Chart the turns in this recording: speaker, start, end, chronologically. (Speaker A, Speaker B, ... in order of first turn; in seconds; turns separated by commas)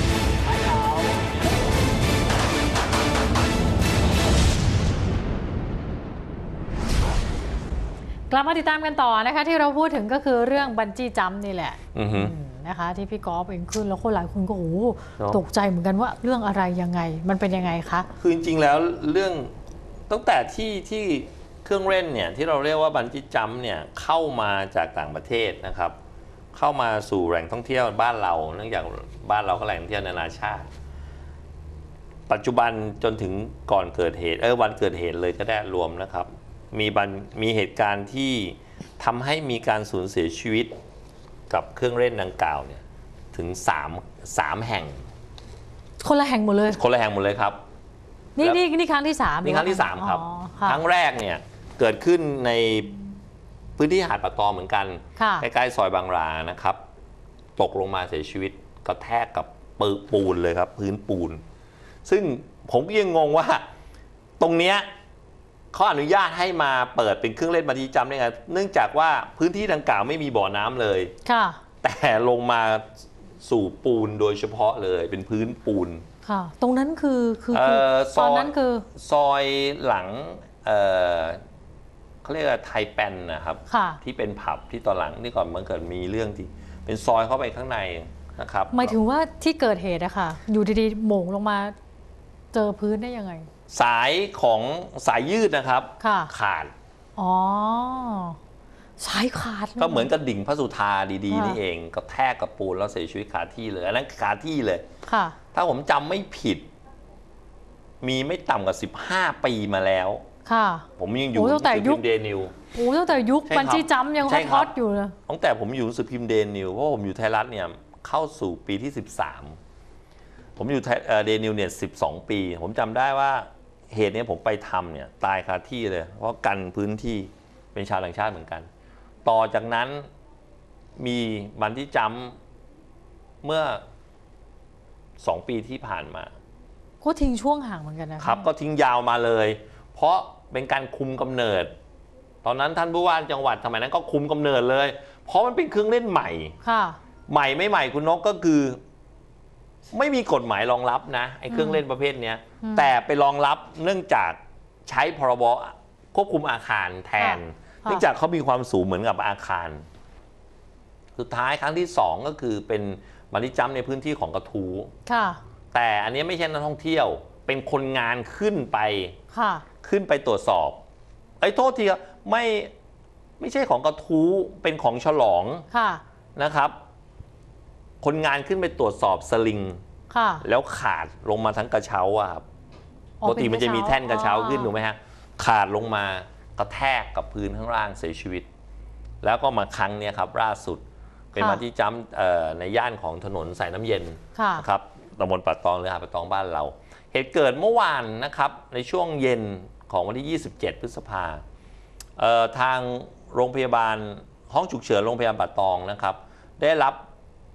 Speaker A: 0.4-1.3, Speaker B: 8.3-18.1, Speaker A: 11.9-12.3, Speaker A: 18.2-19.5, Speaker A: 20.1-25.9, Speaker A: 26.5-30.7, Speaker A: 32.3-40.7, Speaker A: 41.5-45.0, Speaker B: 46.0-46.8, Speaker A: 46.7-47.6, Speaker B: 48.4-50.8, Speaker A: 49.4-52.9, Speaker A: 53.8-56.8, Speaker B: 55.2-55.5, Speaker A: 57.6-61.4, Speaker A: 62.0-63.6, Speaker A: 64.4-64.9, Speaker A: 65.7-71.1, Speaker B: 71.2-71.6, Speaker A: 71.8-76.0, Speaker B: 76.2-78.9, Speaker A: 77.5-81.4, Speaker A: 82.2-89.0, Speaker B: 83.7-84.0, Speaker B: 88.7-91.7, Speaker B: 92.5-93.5, Speaker A: 93.7-96.7, Speaker B: 96.0-96.3, Speaker B: 97.2-98.4, Speaker B: 99.0-100.1, Speaker A: 99.8-104.8, Speaker B: 101.3-101.6, Speaker B: 105.1-105.4, Speaker A: 105.5-106.7, Speaker A: 108.0-110.2, Speaker B: 110.5-112.0, Speaker A: 111.0-112.5, Speaker B: 112.7-115.2, Speaker A: 113.5-114.7, Speaker A: 115.3-119.6, Speaker A: 120.5-128.7, Speaker A: 129.2-130.1, Speaker A: 131.0-132.4, Speaker A: 133.4-133.8, Speaker A: 135.2-136.3, Speaker B: 137.0-138.4, Speaker A: 138.2-141.7, Speaker A: 142.4-146.5, Speaker B: 146.6-147.0, Speaker A: 147.3-148.8, Speaker A: 149.9-159.8, Speaker B: 151.5-151.8, Speaker B: 152.6-152.9, Speaker B: 157.2-158.0, Speaker A: 161.2-164.9, Speaker B: 165.1-165.4, Speaker A: 165.7-169.2, Speaker B: 169.3-169.6, Speaker A: 169.8-170.8, Speaker A: 171.4-172.7, Speaker A: 173.4-175.7, Speaker B: 175.7-176.0, Speaker A: 176.3-176.8, Speaker A: 178.0-179.8, Speaker B: 180.1-180.4, Speaker A: 180.4-182.4, Speaker B: 183.2-184.7, Speaker A: 183.2-188.5, Speaker A: 189.2-201.4, Speaker B: 191.4-191.6, Speaker B: 194.3-194.6, Speaker A: 202.2-207.0